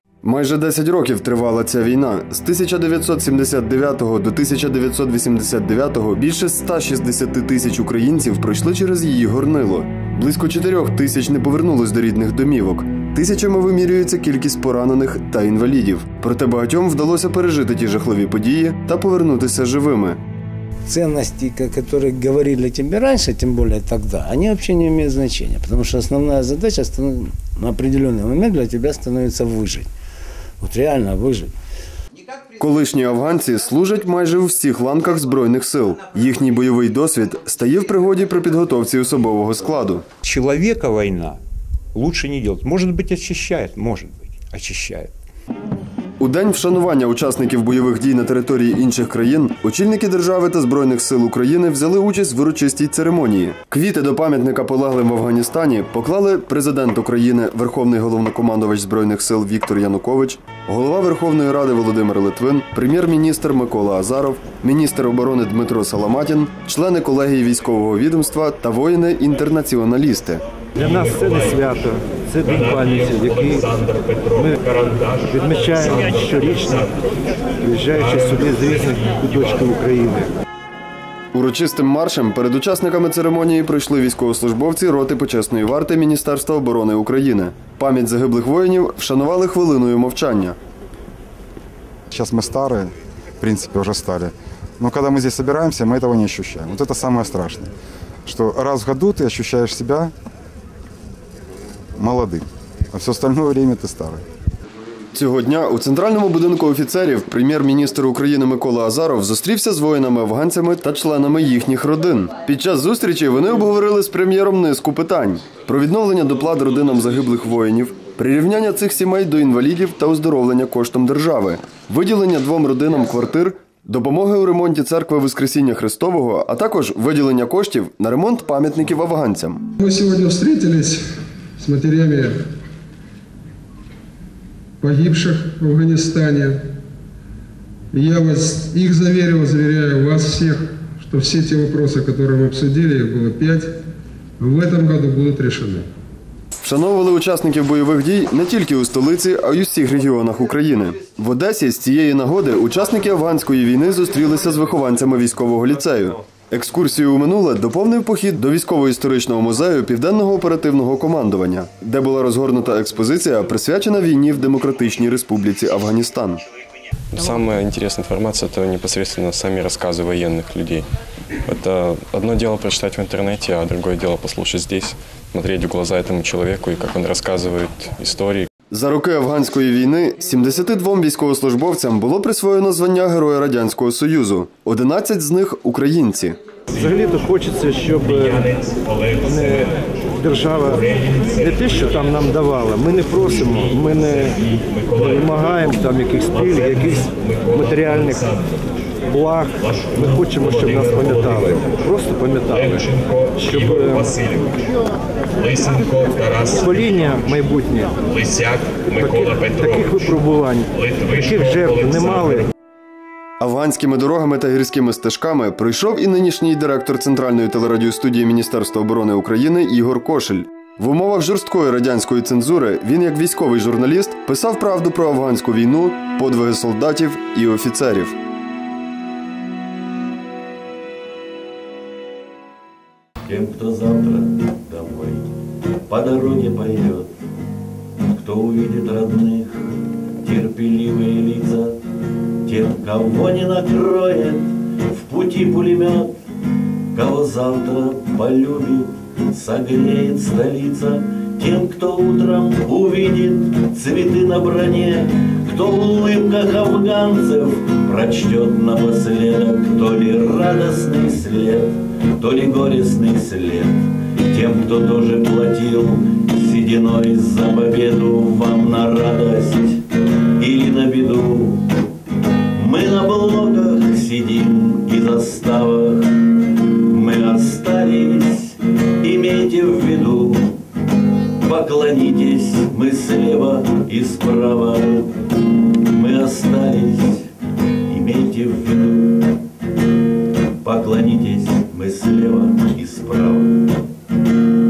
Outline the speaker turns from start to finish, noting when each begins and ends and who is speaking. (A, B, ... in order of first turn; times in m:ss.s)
0:00.2-0:20.2 A
0:20.9-0:29.9 B
0:30.6-0:31.5 B
0:32.6-0:40.1 A
0:40.2-0:41.4 C
0:41.9-0:45.1 C
0:46.2-1:10.4 A
1:10.8-1:17.0 D
1:17.6-1:20.3 D
1:21.3-1:30.6 A
1:32.1-1:37.7 E
1:38.2-1:40.1 E
1:42.0-1:44.2 E
1:45.1-2:09.6 A
2:09.8-2:11.0 F
2:11.6-2:12.4 F
2:14.8-2:16.6 F
2:17.9-2:23.7 F
2:24.4-2:25.9 F
2:26.6-2:46.4 A
2:47.1-2:50.8 G
2:51.5-2:58.5 G
2:58.7-3:06.4 A
3:06.7-3:18.5 D
3:19.1-3:24.7 D
3:25.5-3:32.5 D
3:33.4-3:48.2 A
3:53.3-3:55.3 H
3:55.9-3:57.1 H
3:58.1-3:59.6 H
4:00.2-4:01.8 H
4:02.5-4:06.1 H
4:07.0-4:29.8 H
4:30.4-4:31.6 H
4:32.6-4:40.6 H
4:41.4-4:45.1 H
4:45.9-4:47.3 H
4:47.9-4:49.3 H
4:50.6-4:53.6 H